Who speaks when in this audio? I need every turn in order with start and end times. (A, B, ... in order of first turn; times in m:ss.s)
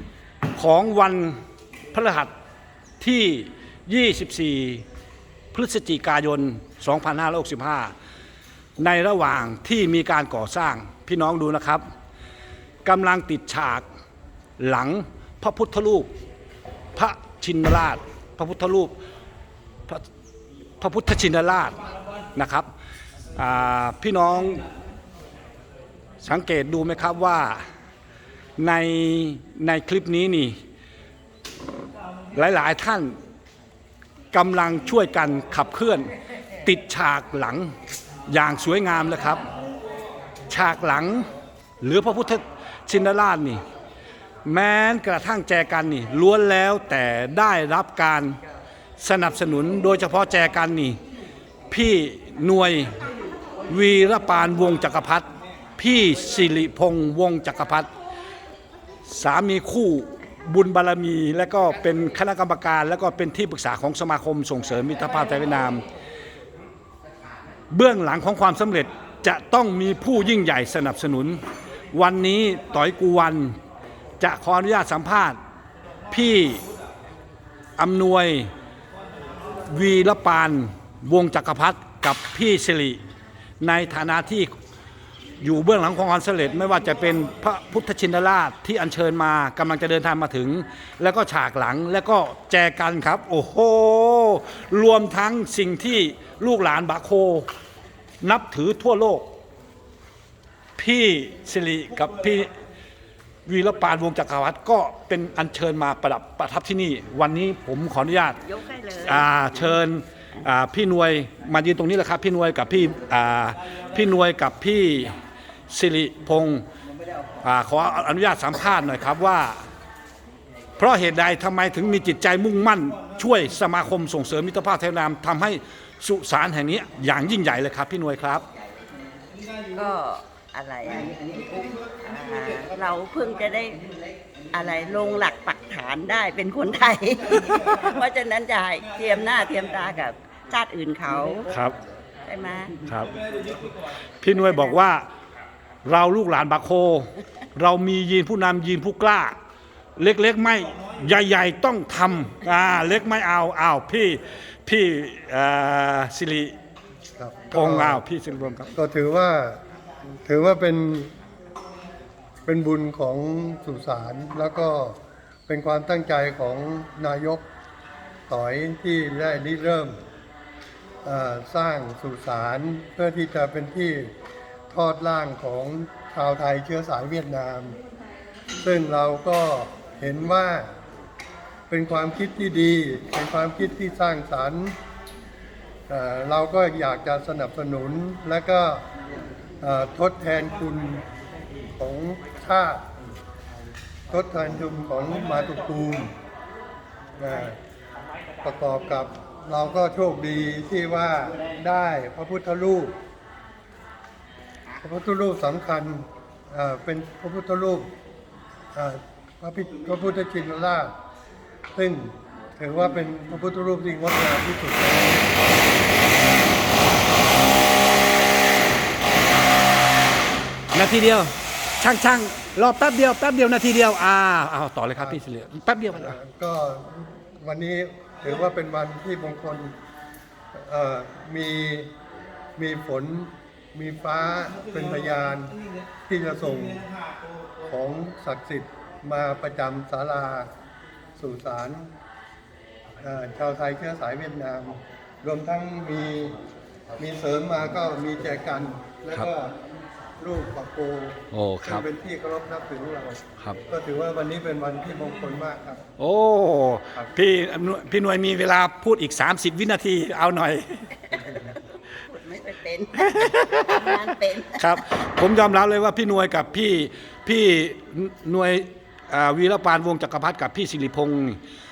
0:00.6-0:01.4 A
0:01.9-0:02.3 A
0:03.0-0:04.8 A
0:05.5-0:07.9 A
0:08.8-0:11.8 A
0:12.8-0:13.8 A
0:14.6-0:16.1 A
0:17.0-0:18.9 A
0:20.8-0:21.8 A
0:22.3-0:22.7 A
0:23.3-0:24.6 A
0:26.2-0:27.6 A
0:28.6-0:30.6 A
0:32.3-0:33.2 A
0:34.3-0:36.1 A
0:36.6-0:37.7 A
0:38.3-0:39.5 A
0:40.5-0:41.3 A
0:41.8-0:43.6 A
0:44.4-0:48.4 A
0:49.0-0:51.0 A
0:51.7-0:53.0 A
0:53.7-0:57.9 A
0:59.0-1:05.8 A
1:07.7-1:11.4 A
1:11.9-1:13.6 A
1:14.2-1:15.4 A
1:16.1-1:16.6 A
1:17.8-1:18.5 A
1:19.6-1:23.0 A
1:23.6-1:24.5 A
1:25.4-1:37.5 A
1:38.2-1:39.3 A
1:40.8-1:42.5 A
1:43.4-1:48.4 A
1:48.4-1:49.3 B
1:49.0-1:55.2 A
1:55.7-1:56.6 A
1:57.4-1:59.6 A
2:00.8-2:08.4 A
2:09.7-2:13.8 B
2:14.5-2:21.5 B
2:22.2-2:22.8 B
2:22.8-2:23.1 A
2:24.2-2:25.1 A
2:25.8-2:29.4 A
2:30.0-2:36.5 A
2:37.2-2:38.0 C
2:37.5-2:38.7 A
2:38.7-2:39.6 C
2:40.2-2:41.1 C
2:42.4-2:45.0 C
2:45.5-2:47.4 C
2:48.3-2:50.0 C
2:51.0-2:54.1 C
2:54.7-2:57.8 C
2:58.6-3:00.7 C
3:01.7-3:04.8 C
3:05.9-3:08.8 C
3:09.6-3:11.0 C
3:11.8-3:12.8 C
3:14.1-3:16.1 C
3:17.2-3:17.6 C
3:18.4-3:22.9 C
3:24.8-3:27.9 C
3:28.7-3:30.9 C
3:31.7-3:35.4 C
3:40.7-3:46.2 A
3:45.9-3:49.7 C
3:50.5-3:51.9 C
3:52.6-3:55.5 C
3:56.1-3:56.9 C
3:57.6-4:00.5 C
4:01.2-4:01.9 C
4:03.0-4:06.3 C
4:07.0-4:09.5 C
4:10.2-4:15.8 C
4:11.3-4:11.8 A
4:16.0-4:21.0 A
4:22.0-4:24.8 B
4:23.0-4:24.0 A
4:24.6-4:31.4 A